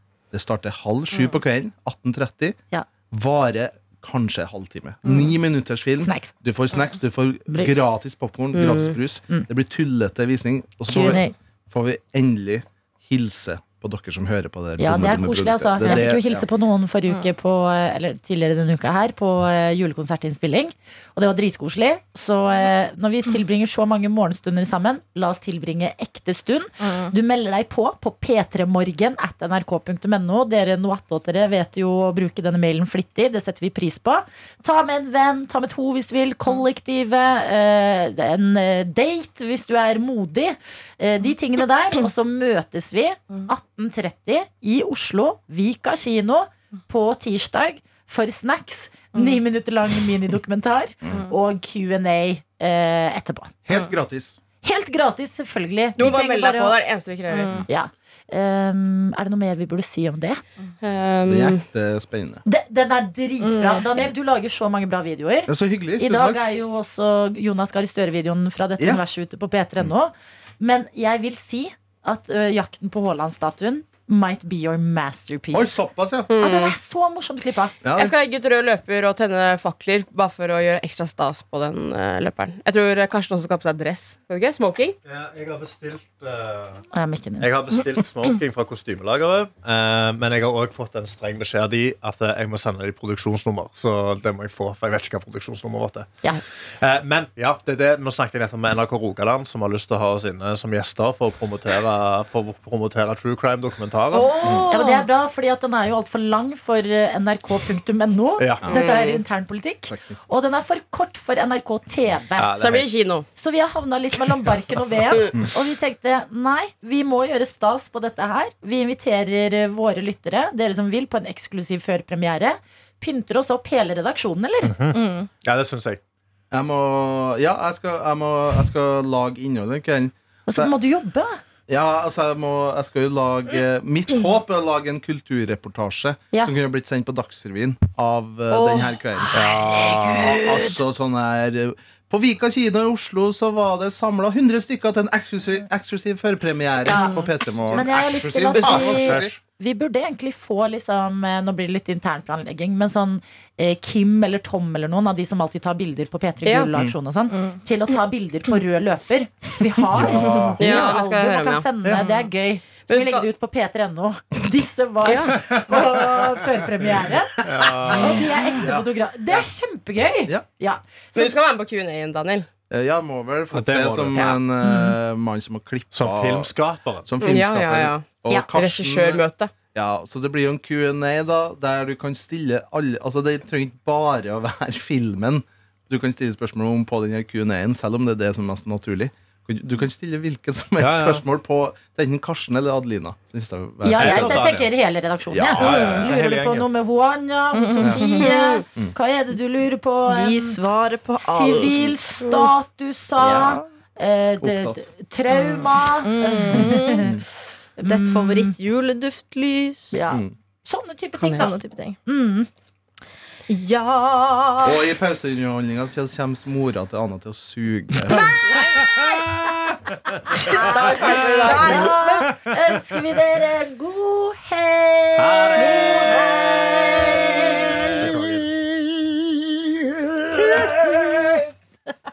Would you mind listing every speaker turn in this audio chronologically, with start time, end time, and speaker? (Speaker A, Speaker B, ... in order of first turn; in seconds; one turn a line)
Speaker A: 0.3-2.6
Speaker A: 3.1-16.4
Speaker B: 6.0-6.3
Speaker B: 7.5-7.9
Speaker C: 8.5-8.9
Speaker B: 10.9-11.3
Speaker B: 14.8-53.5
Speaker D: 26.8-27.1
Speaker A: 53.7-54.4
Speaker B: 54.6-56.8
Speaker C: 56.0-57.5
Speaker D: 57.3-57.6
Speaker B: 57.7-60.4
Speaker C: 60.8-61.6
Speaker A: 61.3-62.4
Speaker B: 62.5-75.8
Speaker D: 63.4-63.9
Speaker A: 65.5-66.4
Speaker A: 75.5-76.3
Speaker C: 76.3-76.8
Speaker B: 76.4-77.7
Speaker A: 77.8-78.2
Speaker C: 78.0-85.0
Speaker E: 85.0-86.8
Speaker B: 86.9-87.5
Speaker E: 87.4-96.1
Speaker E: 96.7-104.5
Speaker D: 104.1-105.1
Speaker A: 104.4-104.7
Speaker B: 104.7-112.8
Speaker E: 108.4-108.8
Speaker C: 108.7-109.2
Speaker A: 109.9-110.2
Speaker E: 112.4-112.9
Speaker C: 112.6-113.3
Speaker B: 113.4-124.7
Speaker E: 124.6-126.0
Speaker D: 124.9-125.3
Speaker A: 126.5-130.7
Speaker B: 130.5-131.4
Speaker A: 131.7-149.4
Speaker D: 138.5-138.9
Speaker B: 139.3-140.8
Speaker B: 146.9-171.4
Speaker E: 148.4-149.4
Speaker C: 156.4-156.7
Speaker A: 159.9-160.7
Speaker C: 160.6-161.7
Speaker C: 162.9-163.3
Speaker C: 165.1-165.4
Speaker E: 165.5-165.8
Speaker E: 167.4-168.3
Speaker A: 167.6-168.9
Speaker C: 171.1-172.5
Speaker A: 172.7-176.5
Speaker E: 173.5-174.3
Speaker C: 174.1-174.4
Speaker B: 174.6-174.9
Speaker E: 175.9-177.4
Speaker A: 177.1-179.2
Speaker C: 177.2-179.5
Speaker A: 179.7-194.4
Speaker E: 190.8-191.2
Speaker B: 193.8-200.6
Speaker E: 193.9-194.7
Speaker A: 195.3-195.9
Speaker E: 195.4-196.7
Speaker D: 195.6-196.1
Speaker D: 197.6-198.3
Speaker A: 197.8-198.2
Speaker C: 198.2-198.6
Speaker D: 200.1-202.5
Speaker B: 201.2-207.1
Speaker D: 203.2-203.7
Speaker A: 204.4-204.9
Speaker D: 205.3-207.1
Speaker A: 206.5-207.2
Speaker B: 207.8-208.6
Speaker D: 207.9-210.0
Speaker B: 209.9-212.5
Speaker D: 211.2-212.0
Speaker C: 211.2-211.5
Speaker D: 213.5-214.8
Speaker A: 214.6-218.4
Speaker B: 218.5-218.8
Speaker B: 220.1-231.4
Speaker D: 220.3-222.3
Speaker C: 220.4-221.9
Speaker E: 225.2-226.1
Speaker E: 228.0-228.5